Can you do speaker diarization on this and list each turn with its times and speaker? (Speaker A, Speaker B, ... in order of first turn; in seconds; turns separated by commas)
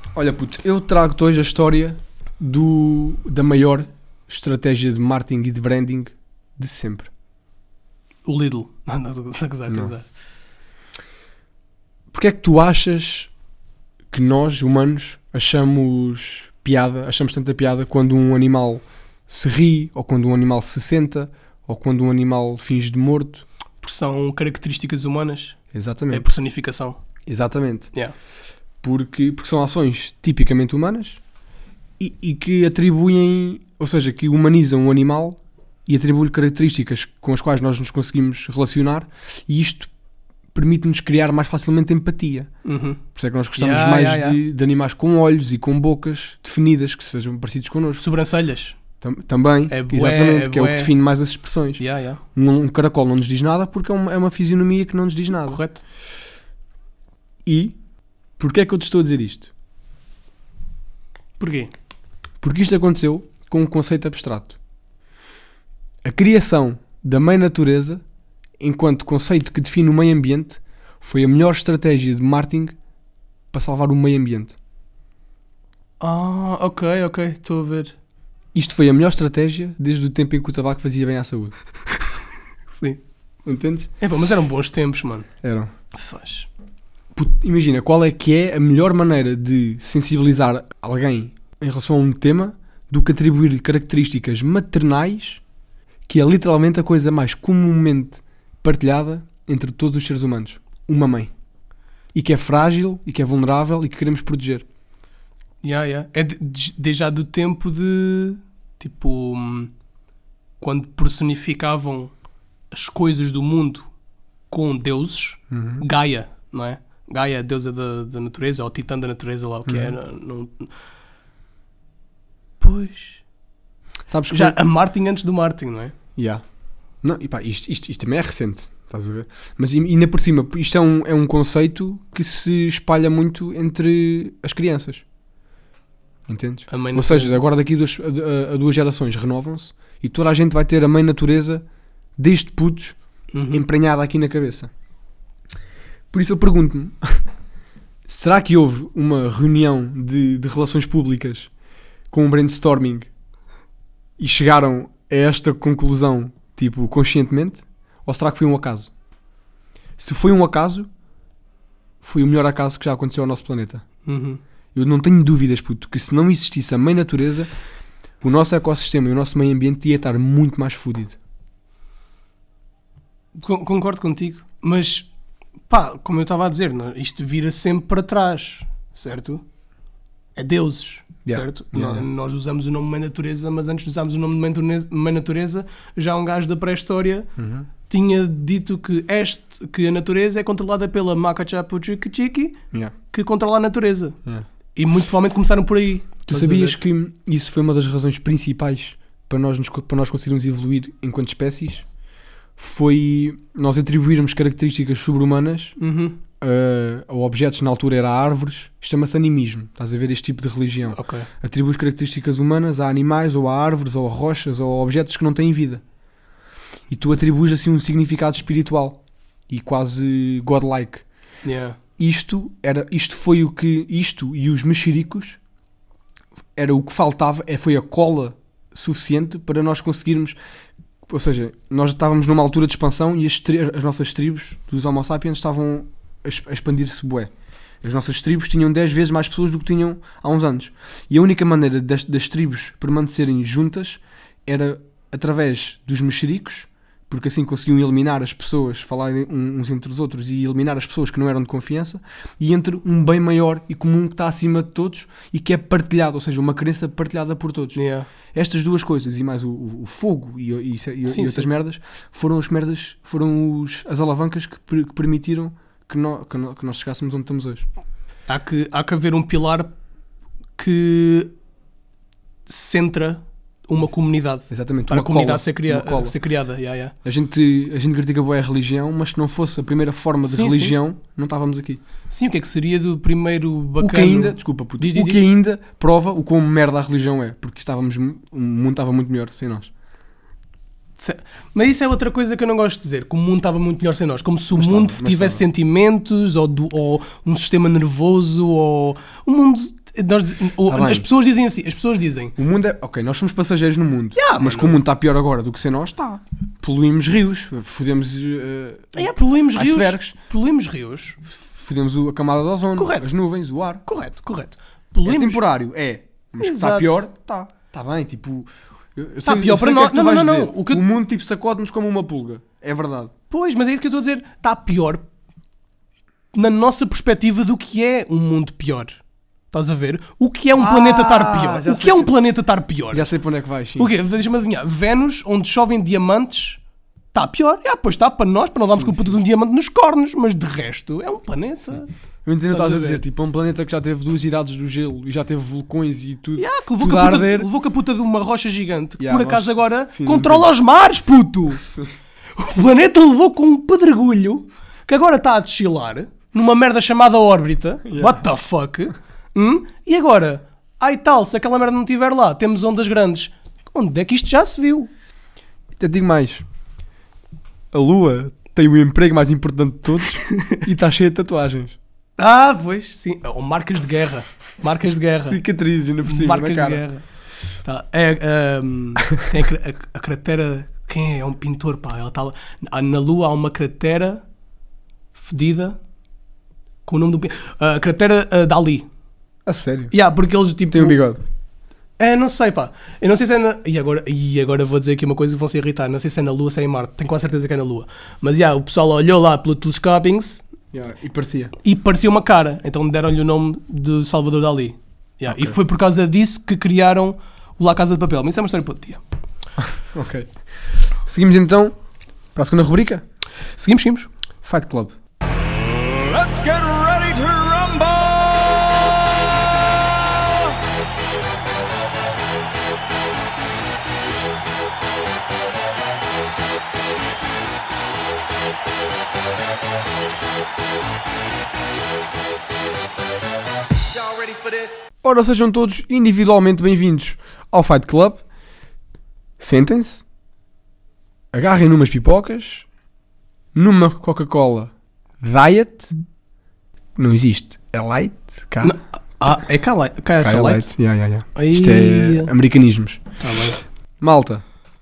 Speaker A: 0.1-7.1, Speaker B: 8.2-10.1, Speaker A: 12.1-13.3, Speaker A: 14.1-23.4, Speaker B: 23.8-27.0, Speaker A: 25.7-26.2, Speaker A: 27.2-27.9, Speaker A: 28.8-31.2, Speaker A: 32.0-39.9, Speaker A: 40.5-42.5, Speaker B: 42.6-43.0, Speaker A: 43.1-48.0, Speaker B: 43.5-44.4, Speaker B: 48.0-48.8, Speaker A: 49.0-55.6, Speaker B: 49.7-50.9, Speaker B: 51.8-52.2, Speaker B: 55.5-55.8, Speaker A: 57.4-57.8, Speaker A: 58.4-59.5, Speaker B: 61.4-61.7, Speaker A: 62.4-64.6, Speaker A: 66.0-68.0, Speaker A: 68.6-72.7, Speaker A: 73.5-74.5, Speaker B: 76.0-77.9, Speaker A: 78.5-81.5, Speaker B: 82.7-83.0, Speaker A: 83.4-83.9, Speaker B: 84.0-85.3, Speaker A: 85.4-85.7, Speaker B: 85.9-86.5, Speaker A: 87.1-95.4, Speaker A: 96.1-101.3, Speaker A: 102.1-104.6, Speaker B: 105.6-109.7, Speaker B: 110.6-112.1, Speaker B: 112.7-113.9, Speaker B: 114.5-120.7, Speaker A: 115.5-115.8, Speaker A: 119.7-119.9, Speaker B: 122.6-123.2, Speaker A: 124.1-124.6, Speaker B: 124.3-125.9, Speaker A: 126.2-126.4, Speaker A: 127.0-135.0, Speaker A: 136.3-141.6, Speaker B: 136.7-137.4, Speaker A: 142.2-143.0, Speaker B: 143.3-143.6, Speaker A: 143.5-144.7, Speaker A: 146.1-147.2, Speaker A: 148.1-151.5, Speaker A: 152.1-153.1, Speaker A: 154.2-158.9, Speaker A: 160.0-160.9, Speaker A: 162.0-163.8, Speaker B: 164.0-164.4, Speaker A: 164.7-167.5, Speaker A: 168.2-171.2, Speaker B: 173.3-175.1, Speaker B: 175.7-179.4, Speaker B: 180.3-187.3, Speaker A: 181.2-182.0, Speaker A: 187.4-187.7, Speaker B: 187.9-192.6, Speaker B: 193.1-194.2, Speaker B: 194.7-196.8, Speaker A: 196.3-201.8, Speaker A: 202.6-205.8, Speaker B: 205.8-206.2, Speaker A: 206.4-215.8, Speaker B: 210.9-211.3, Speaker A: 216.9-221.1, Speaker B: 221.4-221.8, Speaker A: 222.0-225.4, Speaker A: 226.5-230.4, Speaker A: 231.1-267.7, Speaker B: 257.7-258.1, Speaker B: 261.1-261.5, Speaker B: 268.3-269.7, Speaker B: 270.6-271.3, Speaker B: 272.5-276.9, Speaker A: 274.5-276.2, Speaker A: 277.0-281.8, Speaker B: 280.2-280.8, Speaker B: 282.1-285.2, Speaker A: 283.8-289.7, Speaker B: 291.0-302.3, Speaker A: 294.6-295.4, Speaker A: 300.7-301.1, Speaker A: 302.4-310.1, Speaker B: 304.1-304.8, Speaker B: 308.9-311.2, Speaker A: 311.2-313.8, Speaker B: 312.8-313.1, Speaker B: 313.8-315.4, Speaker A: 315.0-323.1, Speaker B: 316.4-317.0, Speaker B: 319.2-320.8, Speaker B: 323.3-325.0, Speaker B: 326.3-333.1, Speaker A: 330.6-332.1, Speaker A: 332.9-333.9, Speaker B: 333.8-336.6, Speaker B: 337.1-341.9, Speaker A: 338.7-339.2, Speaker A: 342.2-347.5, Speaker B: 342.5-343.0, Speaker B: 346.4-351.6, Speaker A: 349.0-350.5, Speaker A: 351.6-351.9, Speaker B: 352.4-364.9, Speaker A: 357.9-358.2, Speaker A: 365.8-366.4, Speaker A: 367.7-371.8, Speaker B: 372.2-375.4, Speaker A: 375.2-376.8, Speaker B: 376.0-377.0, Speaker B: 377.6-384.2, Speaker B: 385.1-385.8, Speaker B: 386.8-388.9, Speaker A: 389.4-389.9, Speaker B: 389.9-391.0, Speaker A: 390.7-391.2, Speaker B: 392.0-400.4, Speaker A: 400.7-401.5, Speaker B: 401.6-409.0, Speaker A: 405.3-405.6, Speaker A: 409.6-411.8, Speaker A: 412.3-413.0, Speaker B: 413.6-414.1, Speaker A: 414.4-414.9, Speaker C: 415.8-420.5, Speaker C: 434.0-434.7, Speaker A: 435.0-438.2, Speaker A: 439.4-440.0, Speaker A: 441.3-442.7, Speaker A: 443.5-445.9, Speaker A: 446.9-448.8, Speaker B: 448.6-450.7, Speaker A: 450.2-453.0, Speaker B: 451.3-452.3, Speaker B: 453.2-453.6, Speaker A: 454.0-454.4